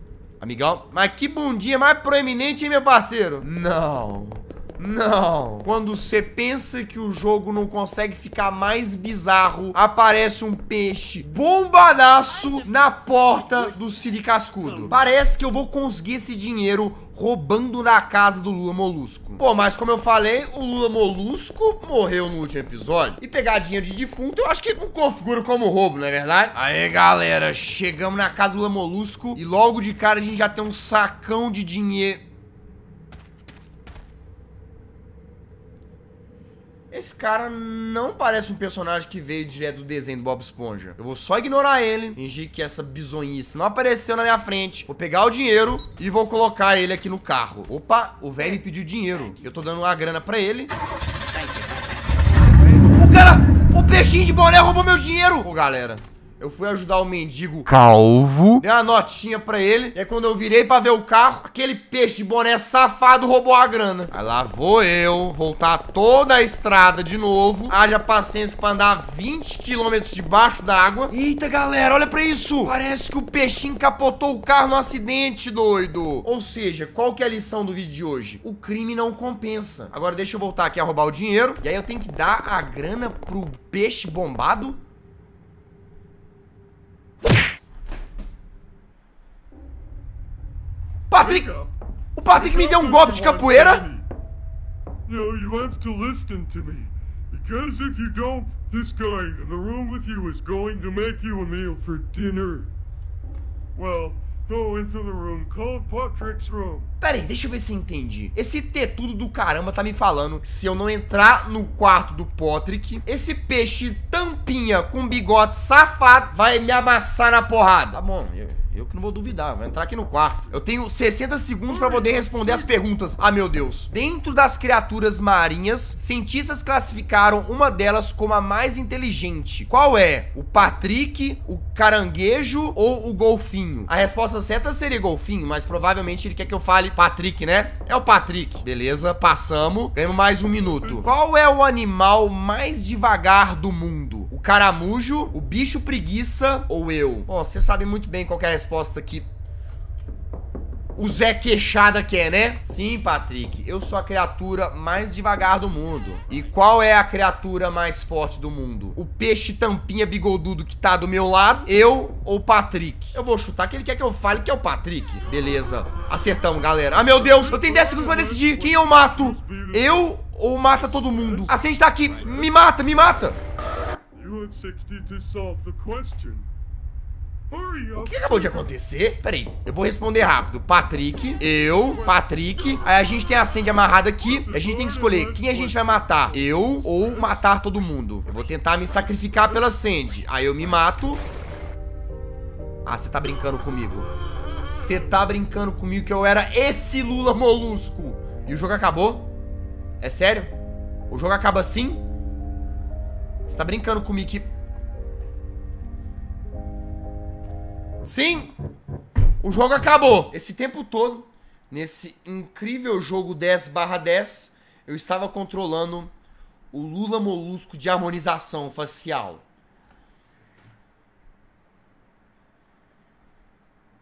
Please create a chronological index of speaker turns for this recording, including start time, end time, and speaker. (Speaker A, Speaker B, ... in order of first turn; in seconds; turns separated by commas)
Speaker A: 0.4-32.2, Speaker A: 36.9-50.7, Speaker A: 52.9-84.8, Speaker A: 91.1-91.5, Speaker B: 91.2-91.7, Speaker A: 92.2-93.9, Speaker B: 92.3-94.1, Speaker B: 95.1-102.7, Speaker B: 103.8-106.9, Speaker A: 107.0-149.3, Speaker B: 121.7-122.6, Speaker A: 151.0-173.4, Speaker B: 167.0-171.6, Speaker B: 174.1-176.5, Speaker B: 177.5-178.8, Speaker A: 178.0-191.2, Speaker B: 181.9-182.2, Speaker B: 184.2-187.5, Speaker A: 192.9-194.1, Speaker A: 194.6-199.3, Speaker A: 200.0-200.5, Speaker A: 201.1-202.1, Speaker A: 203.5-204.5, Speaker A: 208.0-208.5, Speaker A: 209.4-216.1, Speaker A: 216.7-219.4